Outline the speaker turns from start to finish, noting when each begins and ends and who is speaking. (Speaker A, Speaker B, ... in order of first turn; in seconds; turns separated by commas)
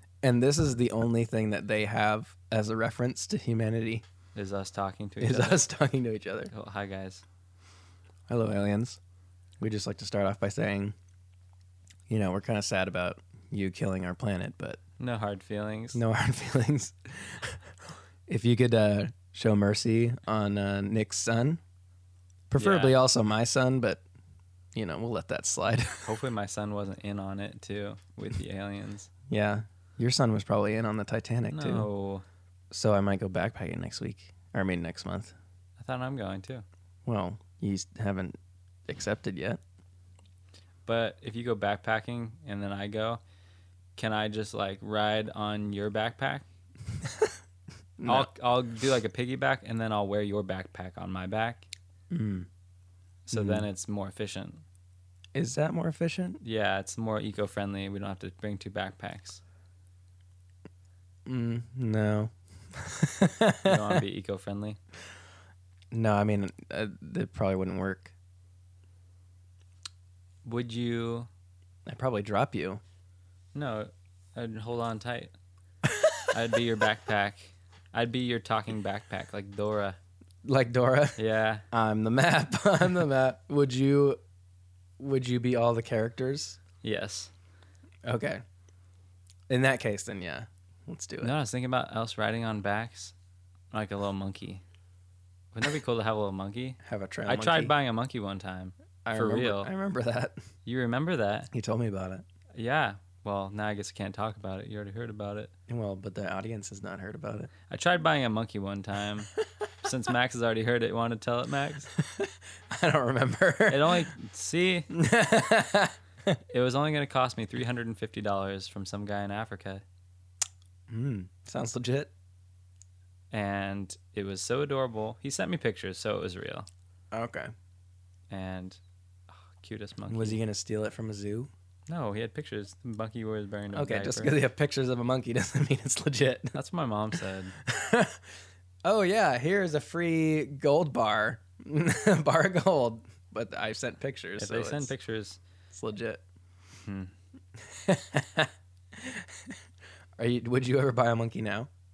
Speaker A: 0.2-4.0, Speaker B: 4.3-5.6, Speaker A: 5.2-6.5, Speaker B: 6.5-7.2, Speaker A: 8.3-9.0, Speaker A: 9.6-10.9, Speaker A: 12.1-14.8, Speaker B: 15.0-16.0, Speaker A: 15.9-17.6, Speaker A: 18.3-21.6, Speaker A: 22.5-24.0, Speaker B: 22.6-23.0, Speaker A: 24.7-26.1, Speaker B: 26.0-29.1, Speaker A: 29.3-31.9, Speaker B: 31.5-32.2, Speaker A: 32.7-35.3, Speaker B: 35.8-36.6, Speaker A: 37.0-38.4, Speaker A: 38.9-39.6, Speaker B: 40.9-43.2, Speaker B: 44.0-46.5, Speaker A: 48.0-48.3, Speaker B: 48.0-51.7, Speaker A: 52.1-52.5, Speaker B: 53.2-54.6, Speaker A: 53.3-53.6, Speaker A: 55.3-56.4, Speaker B: 56.4-59.4, Speaker A: 61.2-64.0, Speaker B: 63.6-64.8, Speaker A: 65.9-68.1, Speaker B: 70.4-71.3, Speaker A: 71.8-72.8, Speaker B: 73.5-75.3, Speaker B: 76.3-80.0, Speaker A: 80.4-81.2, Speaker B: 81.2-81.6, Speaker A: 81.7-84.2, Speaker A: 85.0-86.6, Speaker B: 86.8-87.3, Speaker A: 88.0-88.4, Speaker A: 89.5-91.3, Speaker B: 91.2-93.1, Speaker B: 93.7-94.6, Speaker B: 95.5-99.7, Speaker A: 96.8-97.7, Speaker A: 99.0-100.4, Speaker B: 100.6-101.5, Speaker A: 101.5-102.2, Speaker B: 102.5-105.5, Speaker A: 105.7-107.5, Speaker B: 107.7-109.3, Speaker B: 109.8-111.9, Speaker A: 112.0-114.1, Speaker B: 113.7-114.9, Speaker A: 114.9-116.3, Speaker B: 116.5-119.8, Speaker A: 120.9-122.1, Speaker B: 123.3-126.7, Speaker A: 127.1-127.5, Speaker B: 128.3-128.8, Speaker B: 129.3-130.4, Speaker A: 130.1-131.5, Speaker B: 131.9-134.4, Speaker A: 133.7-136.6, Speaker B: 136.5-137.5, Speaker A: 137.6-138.2, Speaker A: 138.8-144.9, Speaker B: 144.4-145.4, Speaker A: 145.7-146.2, Speaker B: 146.8-147.1, Speaker A: 147.6-149.6, Speaker A: 150.2-151.7